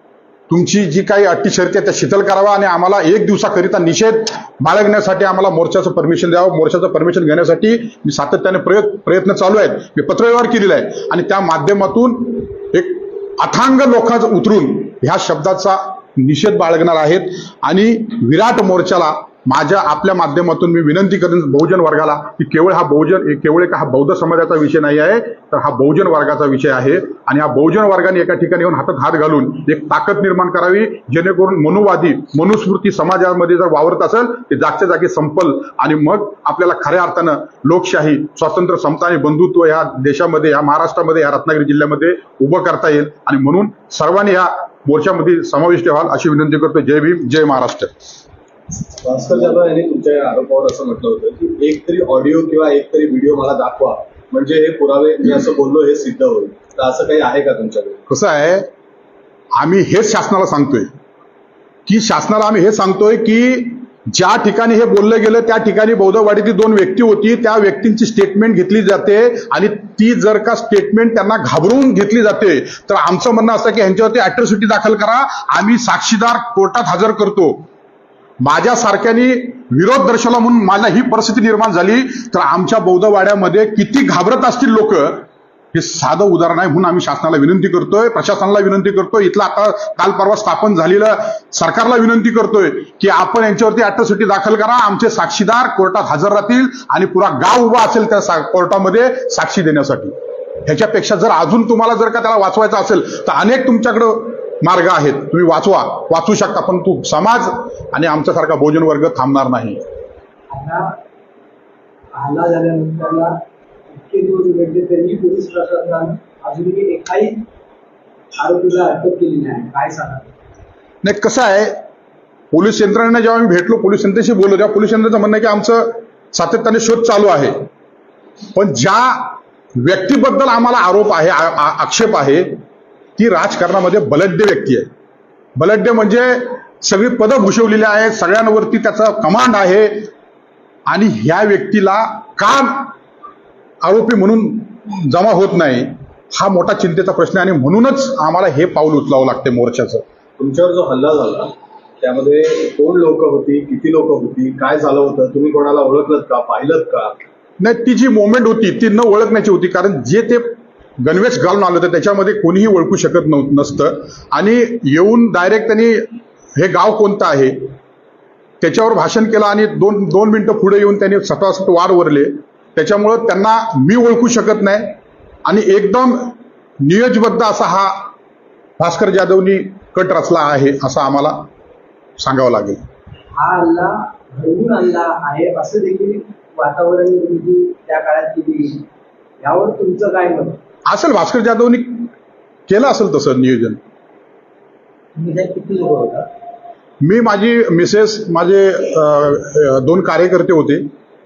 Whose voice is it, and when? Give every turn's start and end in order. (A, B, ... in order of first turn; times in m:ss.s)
0:00.5-0:47.9 A
0:49.0-0:58.0 B
0:58.1-0:58.7 A
0:59.6-1:00.9 A
1:01.9-1:17.6 A
1:18.4-1:49.8 A
1:50.5-1:50.9 C
1:52.1-1:53.3 C
1:53.9-1:57.4 C
1:58.4-2:00.3 C
2:01.0-2:01.8 A
2:02.5-2:07.5 A
2:08.5-2:12.6 A
2:13.2-2:14.9 A
2:15.6-2:20.1 A
2:20.9-2:22.9 A
2:23.8-2:30.0 A
2:30.4-2:37.2 B
2:37.6-2:47.6 A
2:48.6-2:58.1 A
2:58.8-3:01.4 A
3:02.2-3:02.8 A
3:03.3-3:08.8 C
3:09.4-3:10.6 C
3:10.9-3:12.1 A
3:12.7-3:13.8 A
3:15.2-3:16.2 C
3:17.0-3:20.9 A